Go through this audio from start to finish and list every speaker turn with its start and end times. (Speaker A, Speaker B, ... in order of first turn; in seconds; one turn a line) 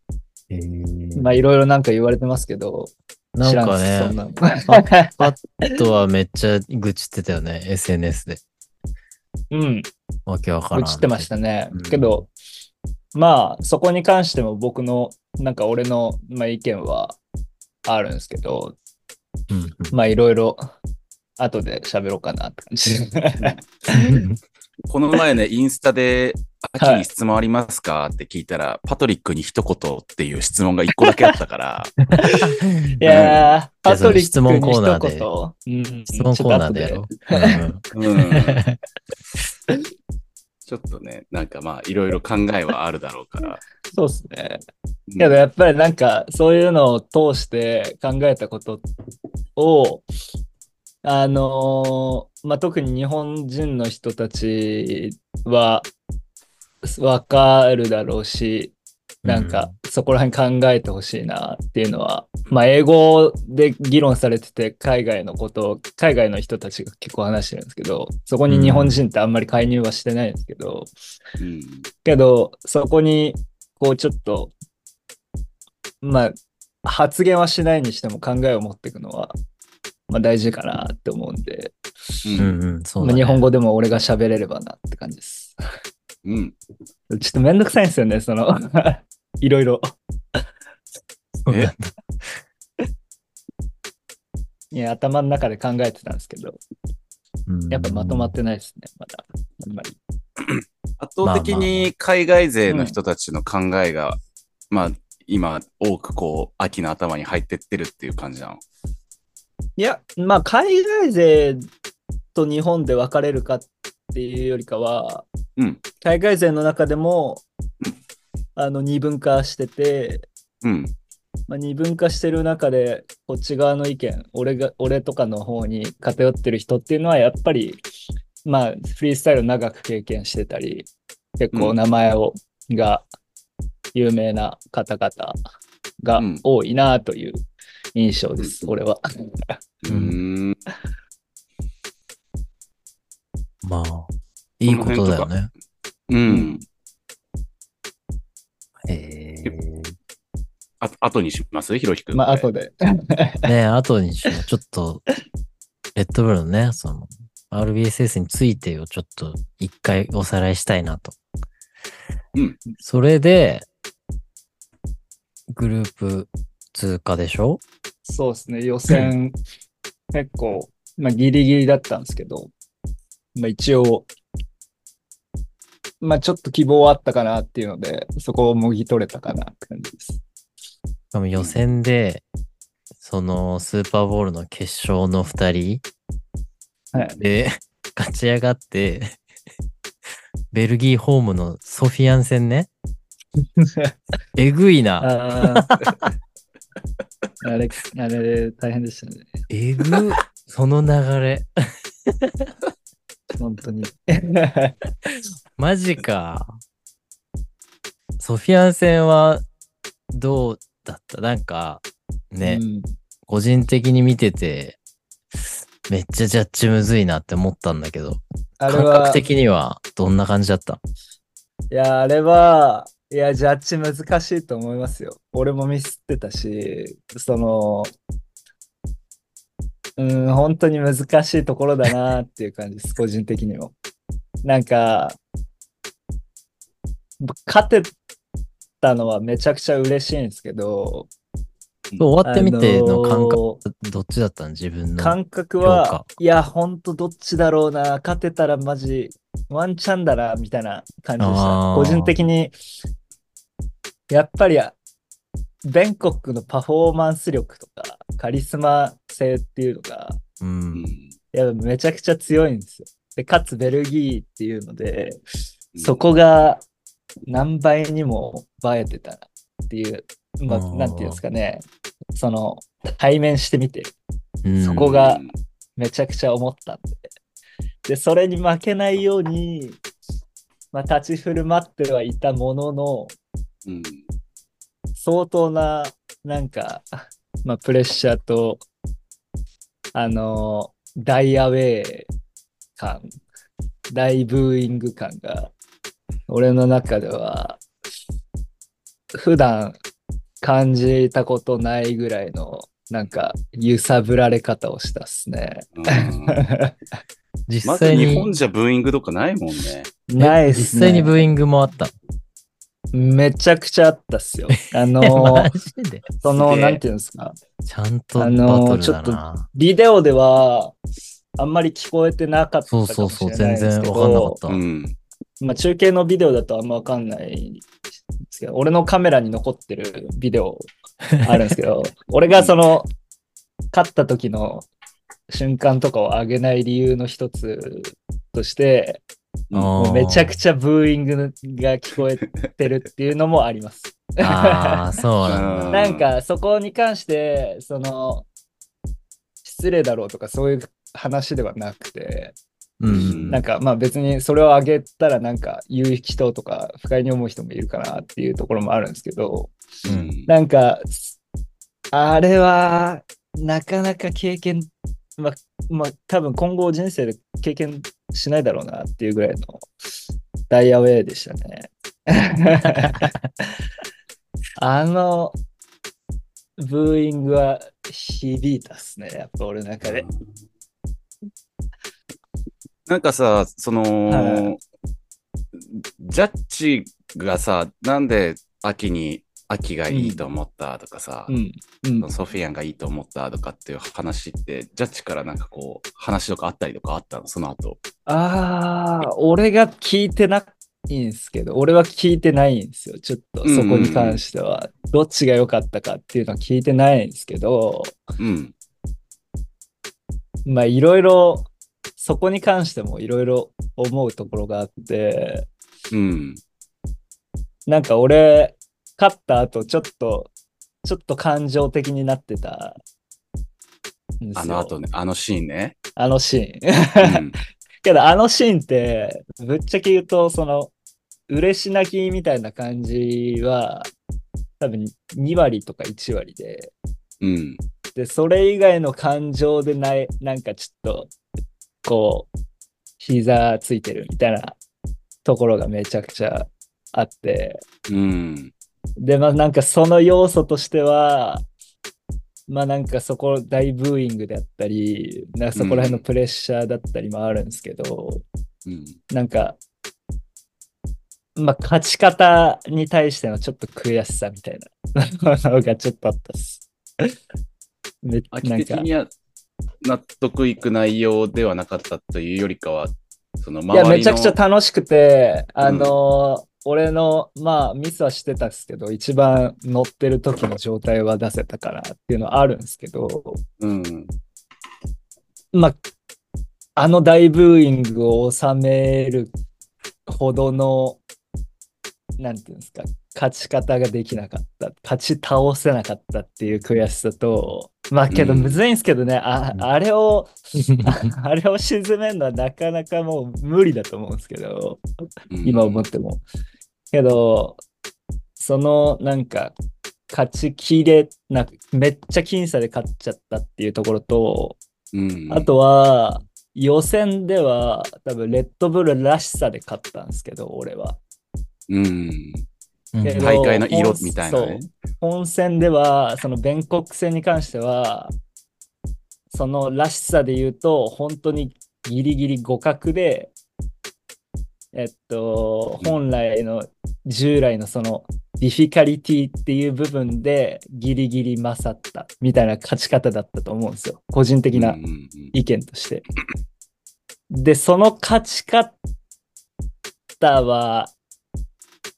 Speaker A: 0.5-1.3
Speaker B: 1.2-5.8
Speaker A: 3.3-4.1
Speaker A: 4.7-8.4
Speaker B: 9.5-9.9
Speaker A: 10.2-12.2
Speaker B: 10.7-12.3
Speaker B: 13.1-17.2
Speaker B: 17.9-18.8
Speaker A: 19.5-19.9
Speaker B: 19.9-20.6
Speaker B: 21.4-24.2
Speaker A: 23.9-24.4
Speaker C: 24.9-31.9
Speaker B: 26.8-27.0
Speaker A: 32.1-33.0
Speaker B: 32.2-37.6
Speaker C: 33.0-33.5
Speaker A: 33.9-35.3
Speaker A: 36.1-38.8
Speaker C: 37.9-38.6
Speaker C: 40.6-43.6
Speaker B: 43.9-44.6
Speaker C: 45.1-45.4
Speaker B: 45.2-48.9
Speaker B: 49.5-50.0
Speaker B: 51.0-55.9
Speaker B: 56.8-70.9
Speaker A: 59.2-59.7
Speaker A: 68.5-69.0
Speaker C: 71.4-71.9
Speaker B: 72.0-74.5
Speaker B: 76.0-79.4
Speaker B: 80.1-82.5
Speaker C: 82.2-82.5
Speaker A: 82.4-83.4
Speaker B: 83.0-85.6
Speaker C: 86.2-86.5
Speaker B: 87.1-90.4
Speaker A: 91.4-92.4
Speaker B: 94.7-96.6
Speaker A: 97.5-98.3
Speaker B: 97.7-100.0
Speaker C: 101.0-104.2
Speaker A: 101.2-101.9
Speaker B: 102.7-102.9
Speaker C: 104.7-108.6
Speaker B: 109.8-111.7
Speaker B: 112.3-115.2
Speaker B: 116.0-117.4
Speaker B: 118.5-120.3
Speaker C: 120.6-120.9
Speaker B: 121.5-127.8
Speaker B: 128.4-133.1
Speaker B: 133.9-135.4
Speaker B: 136.0-137.4
Speaker C: 136.2-136.4
Speaker B: 137.9-139.5
Speaker C: 138.4-138.7
Speaker C: 139.8-140.6
Speaker A: 139.9-140.2
Speaker A: 143.6-145.5
Speaker C: 144.7-145.3
Speaker C: 146.1-146.6
Speaker B: 146.3-146.6
Speaker A: 148.9-149.9
Speaker C: 150.8-152.4
Speaker B: 152.1-153.5
Speaker A: 153.4-155.1
Speaker A: 155.9-161.2
Speaker A: 162.8-163.7
Speaker A: 165.5-167.6
Speaker B: 168.1-169.3
Speaker B: 170.1-172.5
Speaker B: 173.3-174.1
Speaker B: 176.0-180.2
Speaker A: 181.1-182.2
Speaker A: 183.0-185.8
Speaker A: 187.2-189.2
Speaker A: 190.5-192.7
Speaker B: 193.6-193.9
Speaker A: 194.3-196.1
Speaker B: 195.0-196.1
Speaker B: 197.4-199.3
Speaker A: 199.5-201.5
Speaker A: 202.1-202.5
Speaker B: 203.4-204.8
Speaker A: 205.6-206.6
Speaker A: 208.2-209.4
Speaker A: 210.1-212.6
Speaker B: 212.4-212.9
Speaker A: 213.3-214.8
Speaker A: 215.9-220.8
Speaker B: 218.6-219.2
Speaker B: 221.7-227.9
Speaker B: 230.0-233.7
Speaker B: 234.4-235.2
Speaker B: 237.2-237.9
Speaker B: 238.8-241.1
Speaker A: 242.0-246.1
Speaker B: 242.2-243.6
Speaker B: 245.0-252.5
Speaker A: 251.2-252.1
Speaker B: 254.1-254.8
Speaker B: 255.6-260.2
Speaker A: 260.4-260.9
Speaker C: 260.7-261.1
Speaker B: 261.3-265.2
Speaker C: 265.7-266.0
Speaker B: 265.8-266.6
Speaker B: 267.3-271.6
Speaker A: 270.5-271.2
Speaker B: 272.1-273.9
Speaker A: 274.4-275.0
Speaker B: 274.6-275.2
Speaker C: 274.9-275.3
Speaker B: 275.8-277.1
Speaker B: 277.9-279.8
Speaker B: 280.7-283.1
Speaker C: 283.6-284.0
Speaker B: 284.9-288.6
Speaker B: 289.9-292.1
Speaker B: 292.8-293.1
Speaker B: 293.9-295.5
Speaker B: 296.3-297.6
Speaker B: 299.1-299.8
Speaker B: 300.4-306.7
Speaker C: 305.8-306.5
Speaker A: 307.5-308.3
Speaker C: 307.6-309.9
Speaker B: 310.1-311.2
Speaker A: 310.2-311.9
Speaker B: 312.9-315.5
Speaker A: 314.6-316.0
Speaker B: 316.2-317.4
Speaker C: 316.3-316.8
Speaker A: 317.6-319.5
Speaker B: 318.2-320.8
Speaker B: 321.4-324.4
Speaker A: 322.7-324.6
Speaker C: 324.5-325.0
Speaker B: 325.4-330.7
Speaker B: 331.2-332.9
Speaker B: 333.7-334.7
Speaker B: 335.3-339.0
Speaker A: 339.5-340.4
Speaker B: 339.8-345.0
Speaker A: 344.2-345.8
Speaker C: 345.2-346.1
Speaker B: 345.7-348.3
Speaker B: 349.4-352.4
Speaker A: 352.8-353.4
Speaker C: 352.9-353.4
Speaker B: 352.9-359.5
Speaker C: 359.8-360.3
Speaker A: 359.9-360.1
Speaker B: 360.3-361.1
Speaker B: 361.9-369.6
Speaker B: 370.5-373.1
Speaker B: 374.6-375.4
Speaker B: 376.6-380.1
Speaker C: 379.8-380.2
Speaker C: 382.9-384.6
Speaker B: 384.1-384.5
Speaker C: 385.5-391.3
Speaker B: 389.9-390.2
Speaker B: 391.3-392.1
Speaker C: 392.0-397.8
Speaker B: 398.1-408.0
Speaker C: 403.4-404.2
Speaker C: 408.2-408.5
Speaker B: 410.4-415.5
Speaker C: 415.9-416.4
Speaker B: 417.7-420.3
Speaker B: 420.8-422.8
Speaker B: 424.2-424.7
Speaker C: 424.4-425.8
Speaker B: 426.0-427.3
Speaker C: 427.0-427.4
Speaker B: 427.8-430.7
Speaker B: 431.3-433.9
Speaker B: 434.6-436.7
Speaker C: 437.2-437.6
Speaker B: 437.9-441.1
Speaker B: 441.8-442.3
Speaker B: 443.0-444.6
Speaker B: 445.2-447.6
Speaker C: 447.9-448.5
Speaker B: 449.0-451.4
Speaker B: 452.5-458.2
Speaker C: 455.6-456.0
Speaker C: 458.6-459.0
Speaker B: 459.1-459.6
Speaker B: 461.4-467.1
Speaker B: 468.0-468.9
Speaker C: 468.3-469.1
Speaker C: 469.8-474.4
Speaker B: 473.7-483.4
Speaker C: 475.6-476.0
Speaker C: 483.6-484.1
Speaker B: 486.8-489.3
Speaker B: 490.1-491.0
Speaker B: 492.2-504.8
Speaker C: 498.1-498.6
Speaker C: 505.3-505.9
Speaker B: 505.4-506.2
Speaker B: 506.9-507.6
Speaker B: 508.4-509.5
Speaker B: 510.1-514.6
Speaker C: 514.9-515.5
Speaker B: 515.3-521.0
Speaker C: 521.7-522.5
Speaker A: 522.9-523.3
Speaker B: 523.0-528.1
Speaker C: 523.2-524.7
Speaker B: 529.3-533.3
Speaker B: 534.7-544.8
Speaker C: 544.5-545.3
Speaker B: 545.3-546.0
Speaker B: 547.3-548.8
Speaker B: 550.2-550.9